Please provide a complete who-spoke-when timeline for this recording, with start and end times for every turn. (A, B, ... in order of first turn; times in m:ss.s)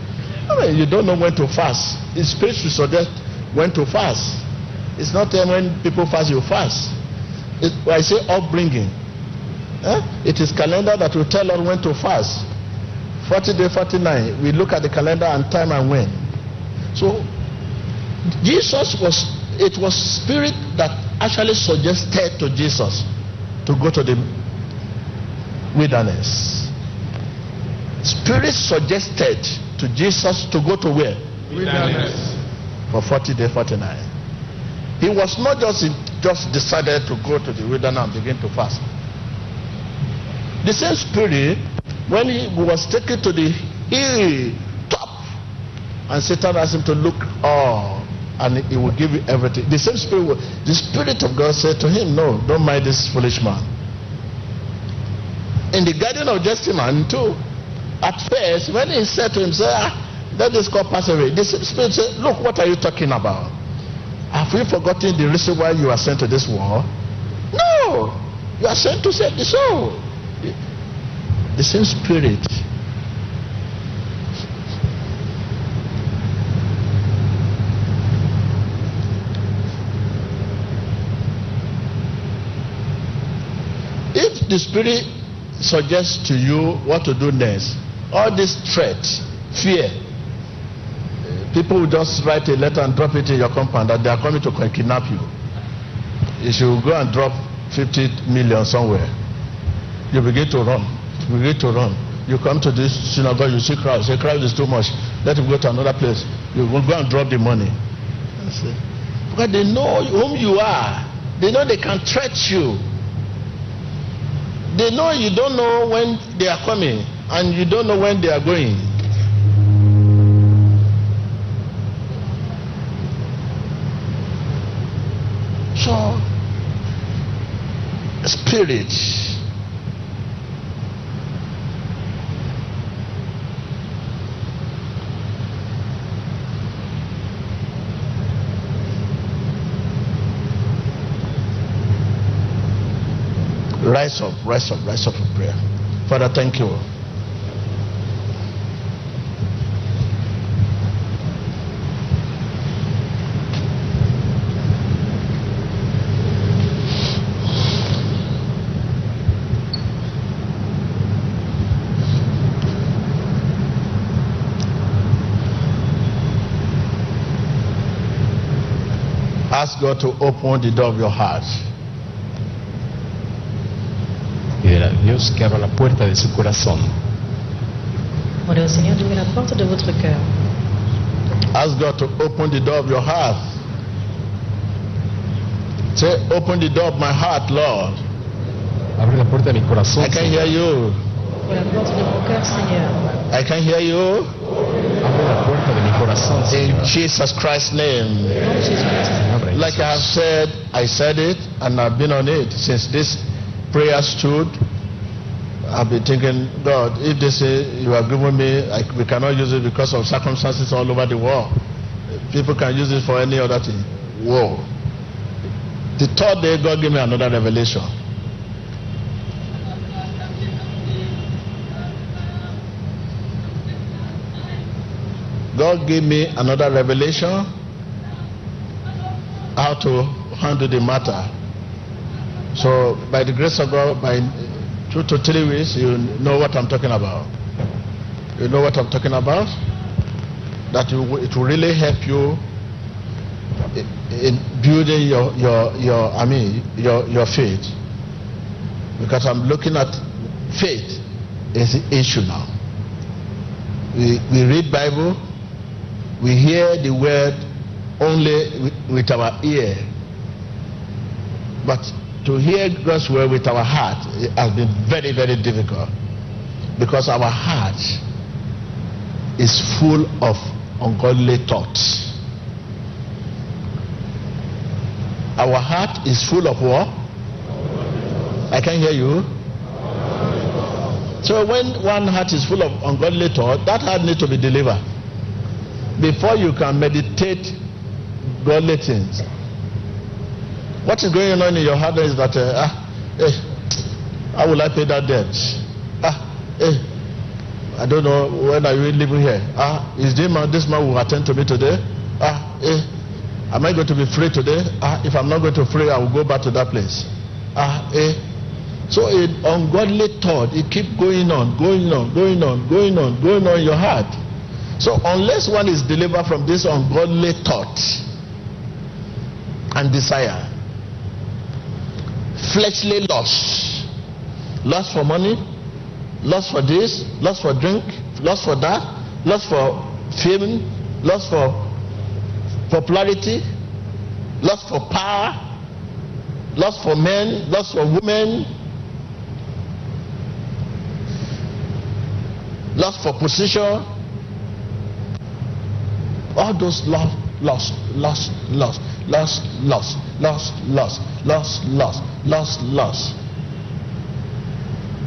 0:00.5-0:04.5 A
0:05.0-0:07.0 A
0:07.6-0:09.0 A
0:09.8-0:12.5 A
0:13.2-0:16.3 A
0:16.9-0:17.3 A
0:18.4-0:23.1 A
0:23.7-0:24.4 A
0:25.7-0:26.7 A
0:28.0-0:32.2 A
0:32.9-0:34.1 A
0:35.0-0:38.9 A
0:40.6-0:45.2 A
0:46.1-0:53.7 A
0:55.7-0:57.4 A
0:58.0-1:03.6 A
1:04.3-1:06.9 A
1:07.5-1:10.5 A
1:11.6-1:12.6 A
1:24.1-1:30.0 A
1:31.5-1:35.3 A
1:36.4-1:39.1 A
1:40.1-1:47.8 A
1:48.4-1:48.8 A
1:49.3-1:52.9 A
1:54.7-1:59.0 A
2:05.8-2:06.2 A
2:08.2-2:09.4 A
2:23.8-2:26.8 A
2:49.5-2:51.6 A
2:54.6-2:57.0 B
2:58.5-3:00.3 C
3:01.5-3:03.4 A
3:06.0-3:08.0 A
3:09.0-3:10.6 B
3:10.0-3:11.0 A
3:11.5-3:13.0 C
3:13.3-3:14.3 A
3:15.0-3:16.9 B
3:16.5-3:18.4 A
3:18.4-3:19.2 C
3:19.2-3:20.0 B
3:19.5-3:24.6 A
3:25.7-3:31.6 A
3:32.3-3:34.7 A
3:36.0-3:37.9 A
3:45.5-3:47.5 A
3:49.6-3:51.3 A
3:52.5-3:57.3 A
3:58.4-3:59.5 A
4:00.7-4:02.4 A
4:03.7-4:07.7 A
4:09.0-4:11.0 A
4:11.5-4:12.5 A
4:13.9-4:15.2 A
4:16.2-4:17.4 A
4:18.0-4:19.9 A
4:21.6-4:25.9 A
4:26.8-4:28.0 A
4:29.4-4:32.2 A
4:35.4-4:37.0 A
4:38.5-4:39.3 A
4:41.2-4:44.8 A
4:46.0-4:47.6 A
4:48.4-4:49.3 A
4:50.8-4:53.4 A
4:54.3-4:56.8 A
4:57.8-5:02.9 A
5:03.5-5:08.2 A
5:08.9-5:14.1 A
5:14.8-5:18.1 A
5:19.8-5:20.5 A
5:22.4-5:23.9 A
5:24.6-5:25.4 A
5:26.2-5:31.7 A
5:32.7-5:33.4 A
5:34.4-5:35.4 A
5:36.6-5:38.5 A
5:42.8-5:43.9 A
5:46.4-5:53.2 A